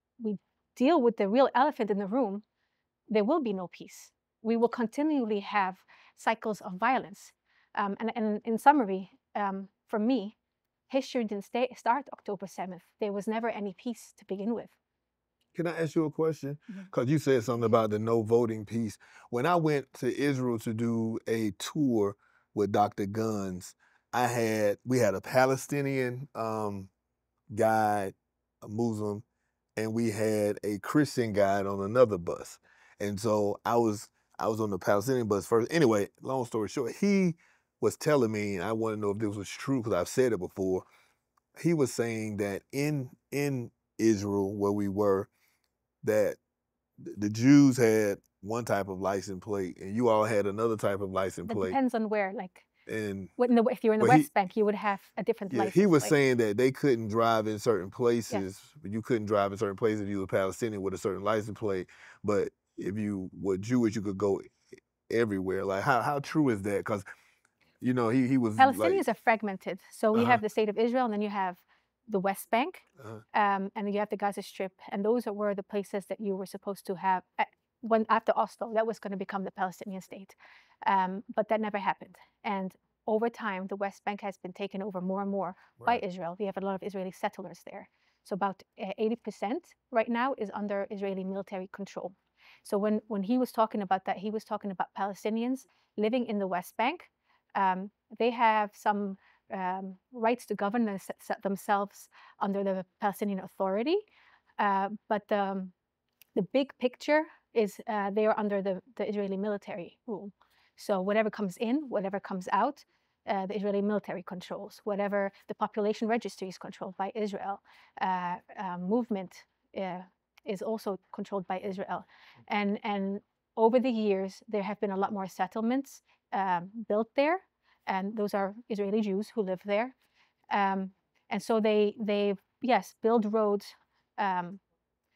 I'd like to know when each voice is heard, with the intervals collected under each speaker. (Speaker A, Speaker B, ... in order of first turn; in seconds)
Speaker A: 0.2-2.4, 3.1-10.4, 10.9-14.7, 51.5-52.7, 53.4-56.1, 68.6-104.0, 104.6-105.7, 106.3-129.9, 130.5-134.6
Speaker B: 15.6-26.9, 27.5-29.2, 29.8-40.9, 41.6-45.3, 46.0-46.4, 47.0-51.8, 52.9-53.3, 54.0-54.3, 55.5-64.5, 65.1-67.0, 67.8-69.0, 70.1-70.4